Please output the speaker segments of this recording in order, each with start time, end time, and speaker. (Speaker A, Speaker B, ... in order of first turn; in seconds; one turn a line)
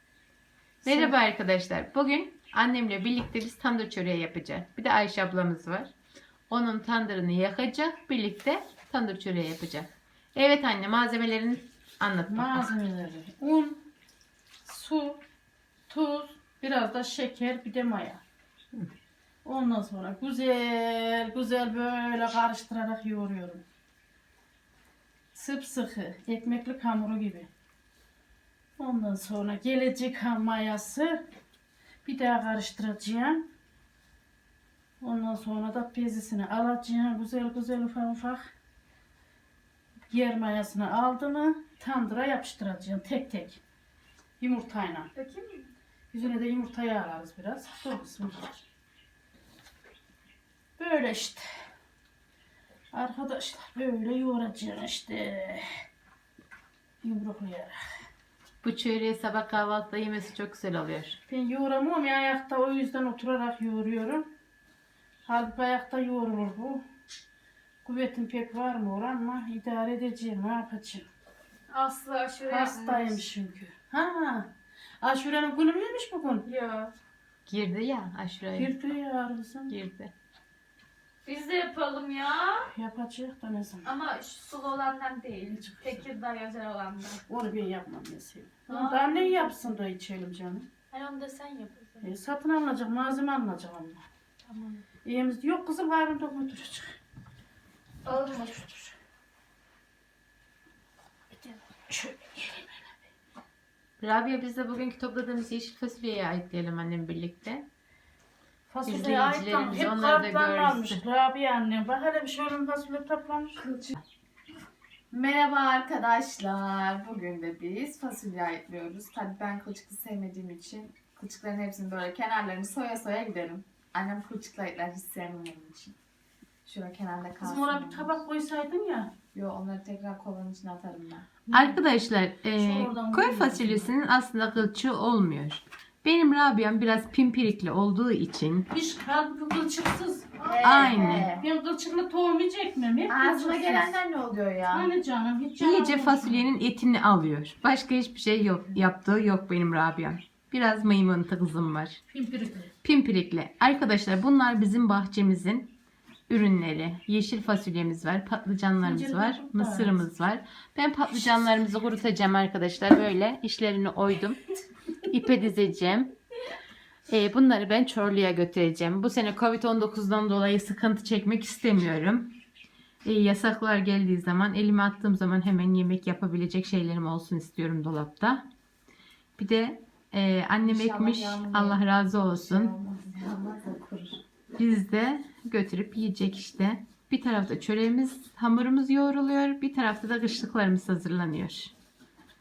Speaker A: 0.8-1.1
Speaker B: 0.8-5.9
Speaker B: 6.5-12.7
Speaker A: 12.3-13.9
Speaker A: 14.6-15.2
Speaker A: 15.9-18.2
Speaker A: 19.4-23.6
Speaker A: 25.3-27.5
Speaker A: 28.8-31.2
Speaker A: 32.0-33.5
Speaker A: 35.0-38.5
Speaker A: 40.1-43.6
Speaker A: 44.4-45.1
Speaker C: 45.2-45.6
Speaker A: 46.1-48.6
Speaker A: 50.8-51.5
Speaker A: 52.9-55.7
Speaker A: 57.0-57.8
Speaker B: 58.6-61.2
Speaker A: 61.3-64.3
Speaker A: 65.2-66.8
Speaker A: 67.8-71.1
Speaker C: 71.7-73.2
Speaker A: 72.4-76.5
Speaker C: 76.5-76.9
Speaker B: 77.5-78.7
Speaker A: 78.5-79.8
Speaker B: 79.7-80.1
Speaker C: 81.2-82.7
Speaker A: 82.7-83.9
Speaker C: 83.8-87.2
Speaker A: 87.3-90.7
Speaker C: 88.7-89.5
Speaker C: 90.9-92.1
Speaker A: 92.0-94.0
Speaker C: 94.5-94.8
Speaker A: 95.0-97.0
Speaker C: 98.0-98.6
Speaker A: 98.1-98.9
Speaker A: 101.4-103.1
Speaker B: 104.0-107.7
Speaker A: 108.7-113.6
Speaker B: 108.8-111.0
Speaker D: 115.1-126.0
Speaker D: 126.6-128.2
Speaker A: 127.4-129.1
Speaker D: 129.3-131.3
Speaker A: 131.5-131.8
Speaker B: 131.5-138.7
Speaker A: 132.5-133.9
Speaker A: 138.7-144.0
Speaker D: 140.4-141.4
Speaker B: 140.6-141.3
Speaker D: 143.1-144.9
Speaker A: 144.7-146.5
Speaker B: 145.6-152.0
Speaker A: 152.1-152.7
Speaker B: 152.8-155.8
Speaker B: 156.3-164.4
Speaker A: 158.8-160.0
Speaker B: 165.0-166.1
Speaker B: 167.1-172.3
Speaker B: 173.0-178.4
Speaker B: 179.4-182.7
Speaker D: 180.6-184.2
Speaker B: 184.6-191.7